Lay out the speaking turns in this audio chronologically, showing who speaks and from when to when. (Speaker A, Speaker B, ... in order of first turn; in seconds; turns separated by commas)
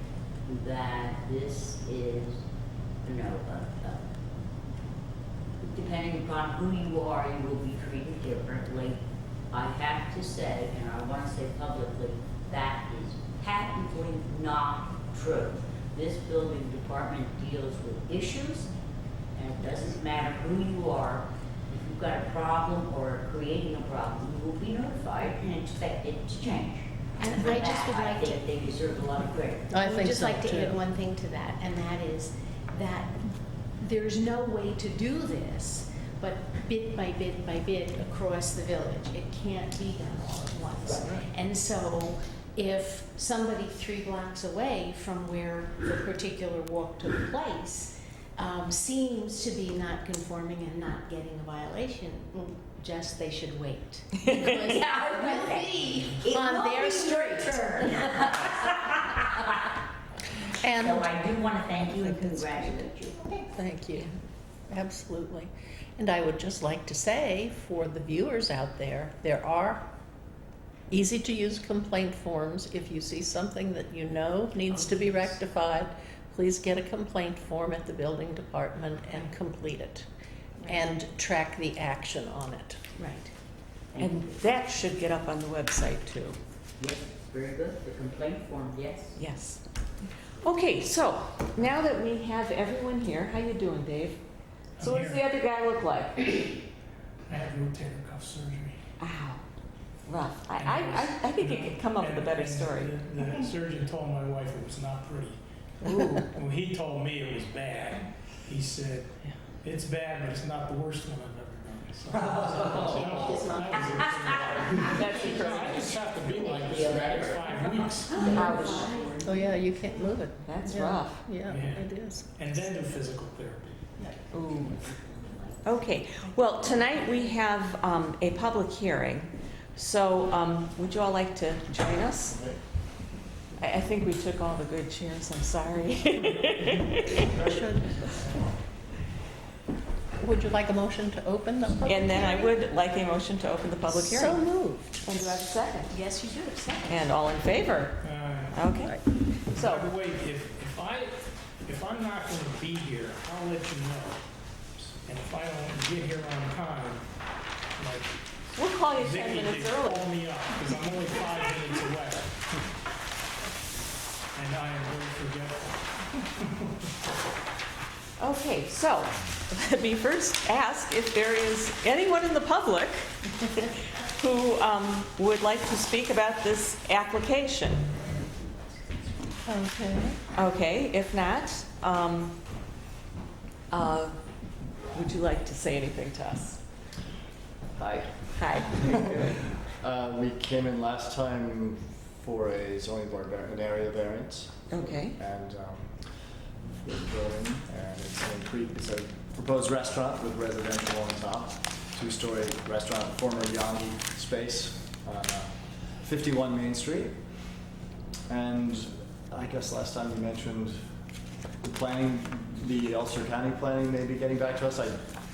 Speaker A: 0.5-2.4, Speaker A: 3.0-4.1, Speaker A: 5.6-9.0, Speaker A: 9.5-18.7, Speaker A: 19.3-29.7, Speaker B: 27.2-28.4, Speaker C: 29.7-30.8, Speaker B: 29.8-58.7, Speaker A: 54.5-59.7, Speaker C: 60.6-61.4, Speaker A: 60.8-63.5, Speaker C: 61.9-62.9, Speaker C: 63.5-64.1, Speaker C: 64.7-69.9, Speaker C: 70.9-80.1, Speaker B: 80.6-81.0, Speaker C: 80.7-82.8, Speaker B: 83.0-83.3, Speaker A: 83.9-84.4, Speaker D: 84.0-86.4, Speaker A: 86.8-89.2, Speaker D: 89.2-89.6, Speaker D: 90.4-94.2, Speaker E: 94.8-95.3, Speaker D: 94.8-96.4, Speaker E: 97.3-98.8, Speaker D: 99.0-99.4, Speaker D: 100.1-102.9, Speaker E: 100.5-105.4, Speaker D: 105.8-106.3, Speaker E: 106.2-118.3, Speaker A: 112.6-113.9, Speaker A: 114.7-119.4, Speaker D: 114.8-116.0, Speaker B: 118.2-119.5, Speaker D: 118.3-119.0, Speaker C: 119.2-122.6, Speaker D: 120.4-121.4, Speaker E: 121.4-123.9, Speaker D: 124.3-124.8, Speaker A: 124.5-125.7, Speaker D: 125.6-132.4, Speaker A: 126.4-126.7, Speaker D: 133.6-137.2, Speaker C: 137.3-137.9, Speaker C: 140.2-142.4, Speaker D: 141.8-144.4, Speaker C: 143.8-145.1, Speaker D: 145.1-145.9, Speaker B: 145.9-147.0, Speaker D: 146.9-148.0, Speaker E: 148.0-148.9, Speaker D: 148.5-149.9, Speaker E: 149.5-154.2, Speaker E: 155.0-157.1, Speaker E: 157.8-158.2, Speaker D: 158.6-160.1, Speaker E: 158.9-162.3, Speaker E: 164.3-166.7, Speaker D: 168.2-173.1, Speaker D: 174.2-177.9, Speaker C: 179.4-180.2, Speaker D: 180.3-182.4, Speaker D: 183.7-184.2, Speaker D: 184.9-186.6, Speaker F: 187.8-188.3, Speaker D: 188.3-189.1, Speaker F: 188.8-195.9, Speaker D: 194.7-195.2, Speaker F: 196.8-207.2, Speaker F: 208.3-210.8, Speaker F: 211.6-215.0